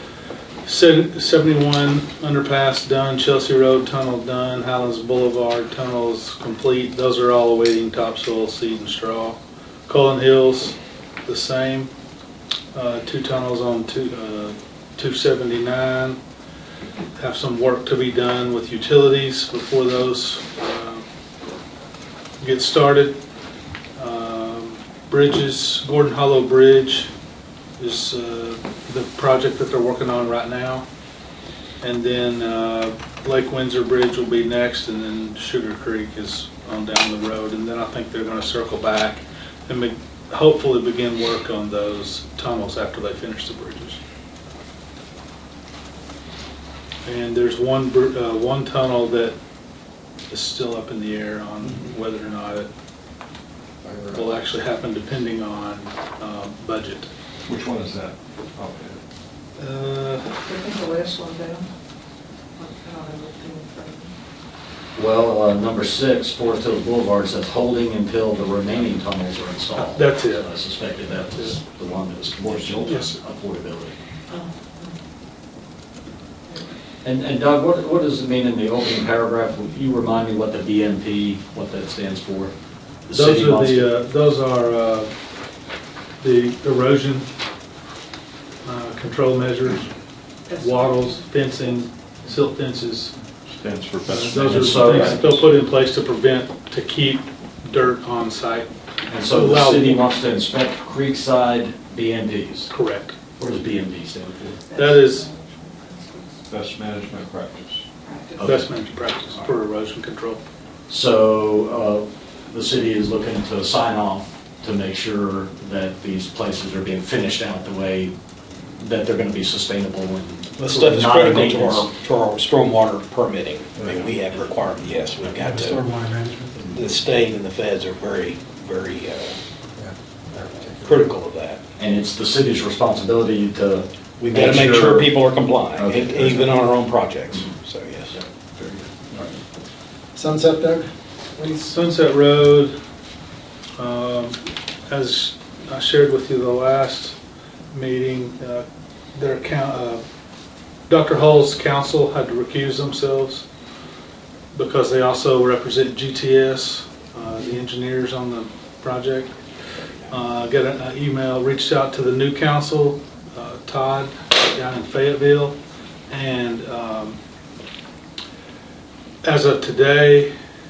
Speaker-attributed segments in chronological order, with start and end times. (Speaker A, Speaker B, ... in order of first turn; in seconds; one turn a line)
Speaker A: 0.6-11.9
Speaker A: 12.7-16.2
Speaker A: 17.1-21.0
Speaker A: 22.4-23.2
Speaker A: 24.0-27.1
Speaker A: 27.8-30.8
Speaker A: 31.8-44.0
Speaker A: 47.0-49.4
Speaker A: 50.3-52.7
Speaker A: 54.1-57.1
Speaker B: 57.5-59.0
Speaker A: 59.6-60.4
Speaker C: 60.5-61.6
Speaker C: 62.7-64.1
Speaker D: 64.9-74.0
Speaker A: 69.7-70.5
Speaker B: 72.6-73.0
Speaker A: 72.8-73.2
Speaker C: 74.3-74.9
Speaker D: 77.0-82.5
Speaker D: 83.1-83.9
Speaker A: 83.1-85.1
Speaker A: 86.2-87.3
Speaker A: 88.6-89.9
Speaker A: 90.5-93.1
Speaker C: 90.7-91.7
Speaker B: 93.5-95.3
Speaker A: 94.0-98.7
Speaker D: 94.4-95.3
Speaker D: 99.1-102.7
Speaker A: 99.3-100.1
Speaker A: 102.7-103.1
Speaker D: 103.4-104.6
Speaker A: 104.7-105.3
Speaker C: 104.8-106.3
Speaker B: 106.5-107.8
Speaker C: 108.0-108.4
Speaker D: 108.4-108.7
Speaker A: 108.4-110.4
Speaker D: 110.9-118.1
Speaker D: 118.8-121.9
Speaker E: 120.6-125.8
Speaker F: 125.3-126.8
Speaker E: 126.7-129.3
Speaker F: 129.8-131.1
Speaker E: 130.8-131.6
Speaker D: 131.8-135.1
Speaker E: 134.2-138.2
Speaker D: 135.8-136.5
Speaker B: 139.0-139.3
Speaker F: 140.1-140.9
Speaker A: 141.4-142.7
Speaker A: 143.8-144.4
Speaker A: 144.9-147.2
Speaker A: 147.7-150.0
Speaker A: 150.9-153.4
Speaker A: 154.5-159.3
Speaker A: 160.1-165.6
Speaker A: 166.1-167.2
Speaker A: 169.2-170.3